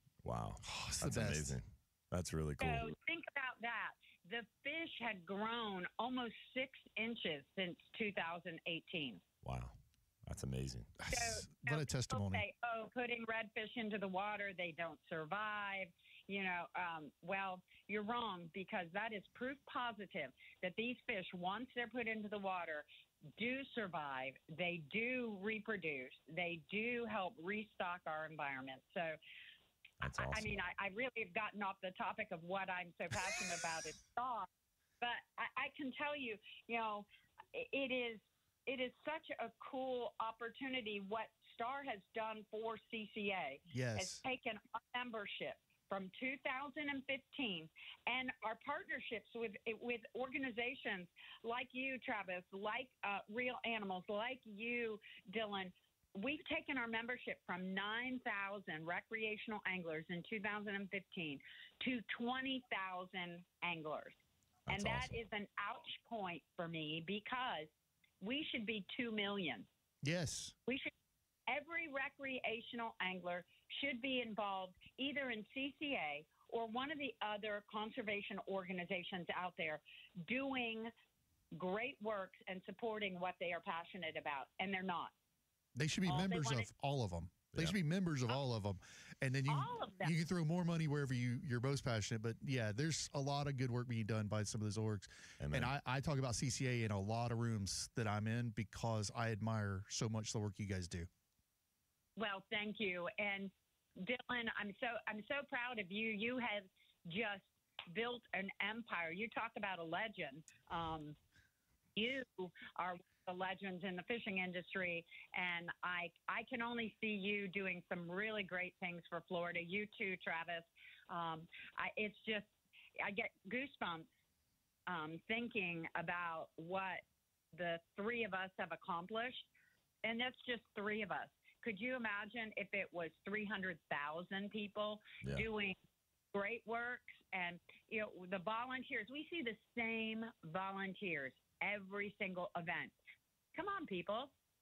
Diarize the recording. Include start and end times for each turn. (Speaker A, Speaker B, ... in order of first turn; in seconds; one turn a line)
Speaker A: 0.2-2.9
Speaker B: 0.6-1.6
Speaker C: 2.6-9.2
Speaker A: 9.4-9.8
Speaker A: 10.3-10.9
Speaker B: 11.0-12.4
Speaker C: 11.1-22.9
Speaker C: 23.4-29.2
Speaker A: 30.0-30.7
Speaker C: 30.0-34.5
Speaker C: 35.0-64.2
Speaker B: 43.7-44.2
Speaker A: 64.7-65.2
Speaker C: 64.7-67.7
Speaker C: 68.2-69.7
Speaker B: 70.0-70.5
Speaker C: 70.7-70.9
Speaker C: 71.5-80.9
Speaker C: 81.5-85.1
Speaker B: 85.8-101.1
Speaker C: 86.0-86.7
Speaker A: 87.5-87.8
Speaker C: 89.5-90.2
Speaker A: 95.4-95.7
Speaker C: 102.2-111.2
Speaker C: 112.0-124.1
Speaker C: 124.9-127.0
Speaker C: 127.5-129.4
Speaker C: 130.0-135.8
Speaker C: 136.3-142.9
Speaker C: 143.5-144.3